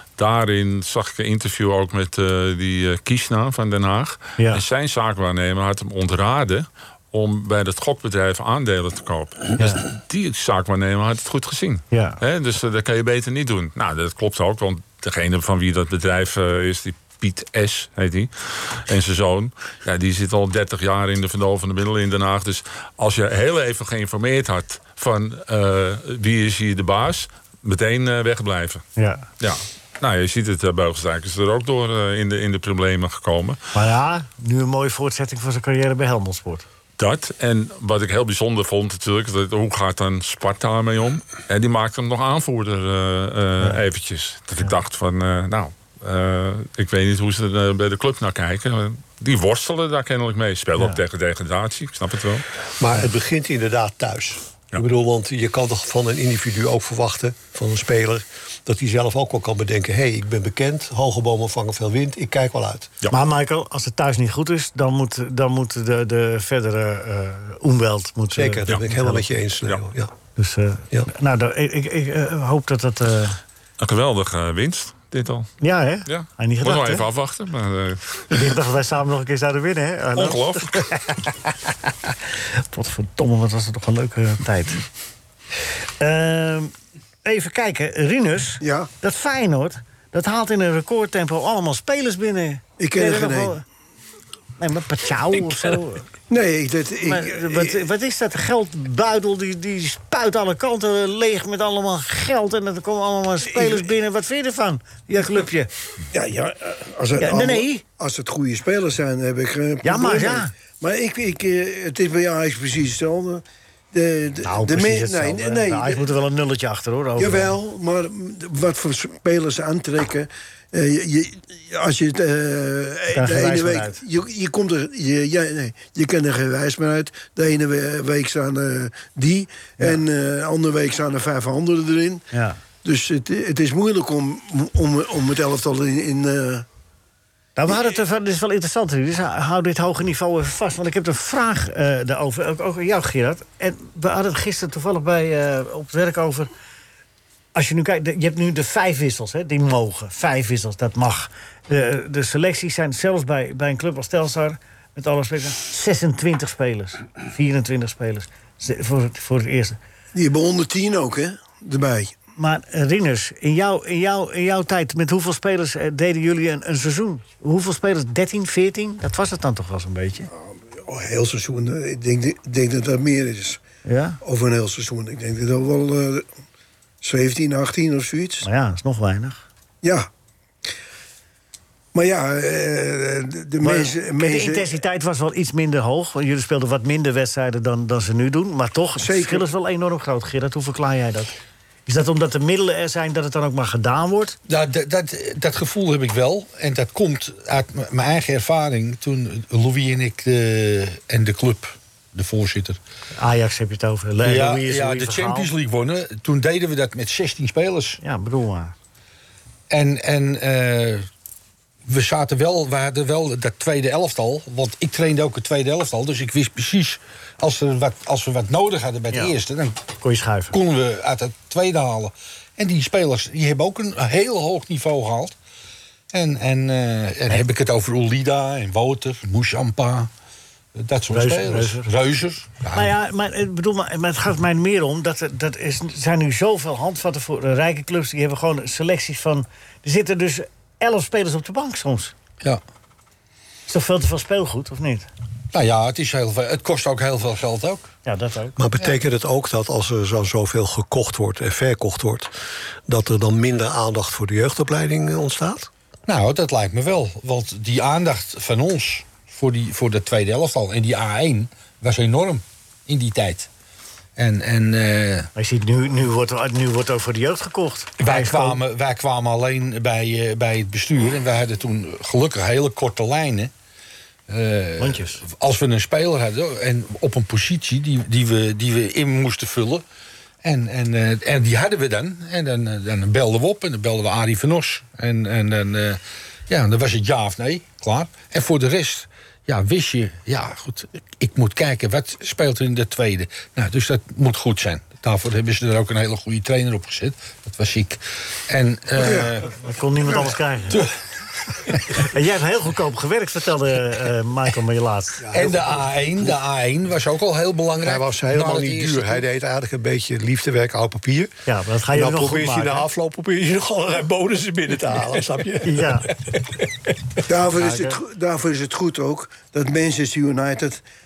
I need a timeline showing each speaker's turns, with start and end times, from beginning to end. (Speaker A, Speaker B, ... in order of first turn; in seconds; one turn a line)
Speaker A: 0.2-28.8
Speaker B: 9.6-9.8
Speaker B: 11.9-12.2
Speaker B: 29.0-29.2
Speaker A: 29.4-33.6
Speaker B: 33.7-36.7
Speaker A: 37.0-52.4
Speaker C: 52.8-62.9
Speaker B: 63.1-69.2
Speaker C: 68.3-70.1
Speaker B: 70.4-73.4
Speaker A: 73.8-75.5
Speaker B: 75.6-77.0
Speaker A: 76.1-78.5
Speaker B: 78.3-81.2
Speaker A: 80.2-80.8
Speaker B: 82.6-84.8
Speaker B: 86.0-86.7
Speaker B: 87.2-93.6
Speaker D: 88.6-88.9
Speaker D: 92.8-93.6
Speaker B: 94.6-96.1
Speaker D: 96.3-97.8
Speaker B: 97.0-105.7
Speaker D: 103.5-103.9
Speaker D: 106.1-116.1
Speaker B: 107.2-107.8
Speaker B: 109.8-110.5
Speaker B: 114.4-117.5
Speaker D: 117.2-132.2
Speaker B: 123.1-124.0
Speaker B: 132.3-132.6
Speaker D: 132.8-136.7
Speaker B: 137.6-146.5
Speaker B: 147.6-159.8
Speaker D: 160.2-162.1
Speaker B: 162.4-170.3
Speaker D: 170.8-173.6
Speaker B: 173.8-174.2
Speaker D: 174.2-176.3
Speaker D: 177.0-178.5
Speaker B: 178.4-179.4
Speaker D: 179.8-180.1
Speaker D: 181.9-184.7
Speaker B: 183.6-191.3
Speaker D: 189.0-189.4
Speaker B: 191.9-194.4
Speaker E: 194.5-202.8
Speaker B: 203.2-205.5
Speaker E: 204.2-208.0
Speaker B: 208.0-208.7
Speaker E: 209.7-211.1
Speaker E: 211.9-219.8
Speaker B: 220.0-220.6
Speaker E: 220.5-225.4
Speaker E: 226.1-230.1
Speaker E: 230.8-232.9
Speaker B: 231.1-231.9
Speaker B: 232.7-242.1
Speaker B: 243.7-245.1
Speaker E: 245.5-247.9
Speaker B: 248.1-248.9
Speaker C: 248.6-252.3
Speaker C: 252.9-255.7
Speaker E: 256.1-263.5
Speaker E: 264.2-265.3
Speaker B: 265.4-268.6
Speaker E: 268.0-273.5
Speaker E: 274.3-279.8
Speaker B: 274.8-275.2
Speaker E: 280.4-299.5
Speaker B: 299.5-300.9
Speaker E: 301.5-302.0
Speaker B: 301.9-305.3
Speaker C: 305.2-306.3
Speaker E: 305.3-309.2
Speaker C: 307.8-311.4
Speaker B: 311.5-312.9
Speaker C: 311.9-316.6
Speaker B: 315.6-316.1
Speaker D: 317.3-320.8
Speaker B: 317.5-318.0